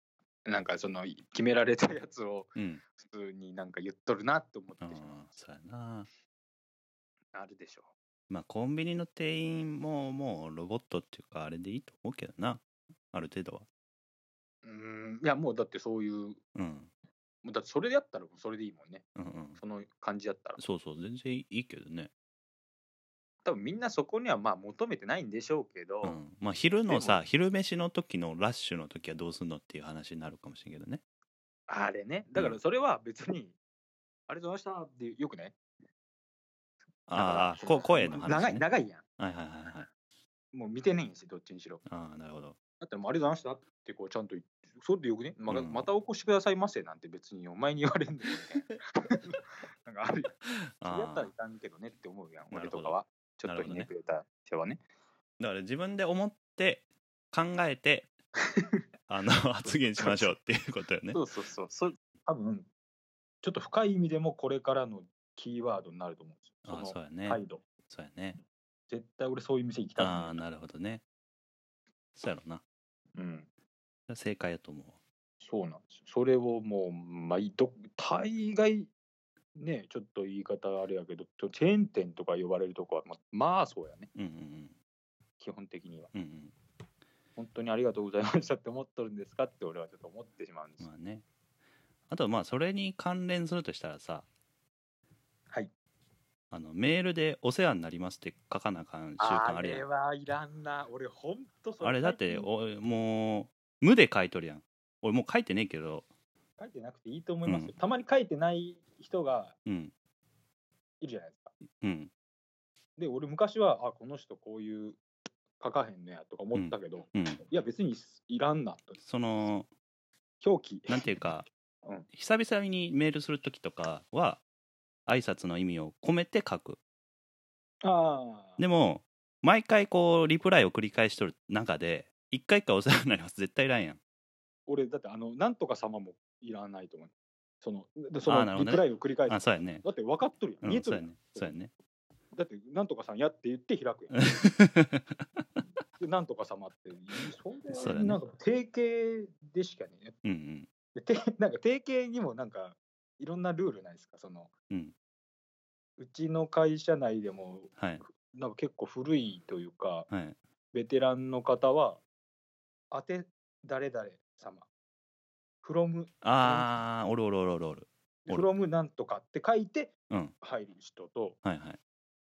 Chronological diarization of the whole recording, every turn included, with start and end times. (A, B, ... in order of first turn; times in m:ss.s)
0:00.4-0:05.1 A
0:02.6-0:02.8 B
0:04.8-0:06.1 B
0:07.3-0:07.9 A
0:08.3-0:13.7 B
0:14.6-0:16.4 A
0:16.6-0:16.9 B
0:17.4-0:19.1 A
0:19.2-0:19.6 B
0:19.6-0:20.6 A
0:20.6-0:22.1 B
0:23.4-0:26.2 A
0:26.0-0:31.0 B
0:26.9-0:27.2 A
0:31.7-0:33.6 A
0:34.3-0:35.6 A
0:37.1-0:38.6 B
0:37.1-0:39.0 A
0:39.2-0:39.9 B
0:40.5-0:41.8 A
0:41.9-0:42.6 B
0:42.8-0:54.8 A
0:45.5-0:45.9 B
0:50.5-0:51.3 B
0:52.5-0:53.9 B
0:55.4-0:58.1 B
0:58.5-0:58.8 A
0:59.1-1:01.2 B
1:00.0-1:00.4 A
1:01.1-1:02.7 A
1:03.4-1:07.6 A
1:06.6-1:08.4 B
1:08.9-1:10.4 A
1:10.0-1:11.0 B
1:12.2-1:12.6 B
1:13.2-1:13.5 A
1:14.1-1:15.0 B
1:15.4-1:18.9 A
1:19.6-1:24.1 A
1:24.2-1:24.8 B
1:25.4-1:26.1 A
1:26.1-1:26.5 B
1:27.4-1:30.9 A
1:30.8-1:31.2 B
1:32.1-1:34.3 B
1:36.5-1:39.8 B
1:39.2-1:42.5 A
1:41.8-1:46.1 B
1:46.6-1:49.6 A
1:47.5-1:47.7 B
1:49.7-1:49.9 B
1:51.0-1:51.5 A
1:51.8-1:52.1 B
1:53.0-1:55.0 A
1:55.6-1:59.0 A
1:56.5-1:57.4 B
1:59.0-1:59.7 B
2:00.4-2:01.1 A
2:00.9-2:01.5 B
2:02.1-2:04.4 B
2:05.1-2:06.8 B
2:07.8-2:08.6 A
2:08.6-2:14.0 B
2:14.7-2:21.5 A
2:18.3-2:19.8 B
2:20.6-2:21.7 B
2:22.3-2:24.4 A
2:24.2-2:25.2 B
2:26.0-2:30.2 A
2:27.7-2:28.2 B
2:30.2-2:30.7 B
2:31.0-2:34.5 A
2:36.0-2:40.1 A
2:37.8-2:38.0 B
2:40.1-2:40.4 B
2:40.7-2:42.0 A
2:42.9-2:44.7 A
2:45.6-2:46.7 A
2:46.2-2:48.5 B
2:48.2-2:51.4 A
2:51.4-2:51.8 B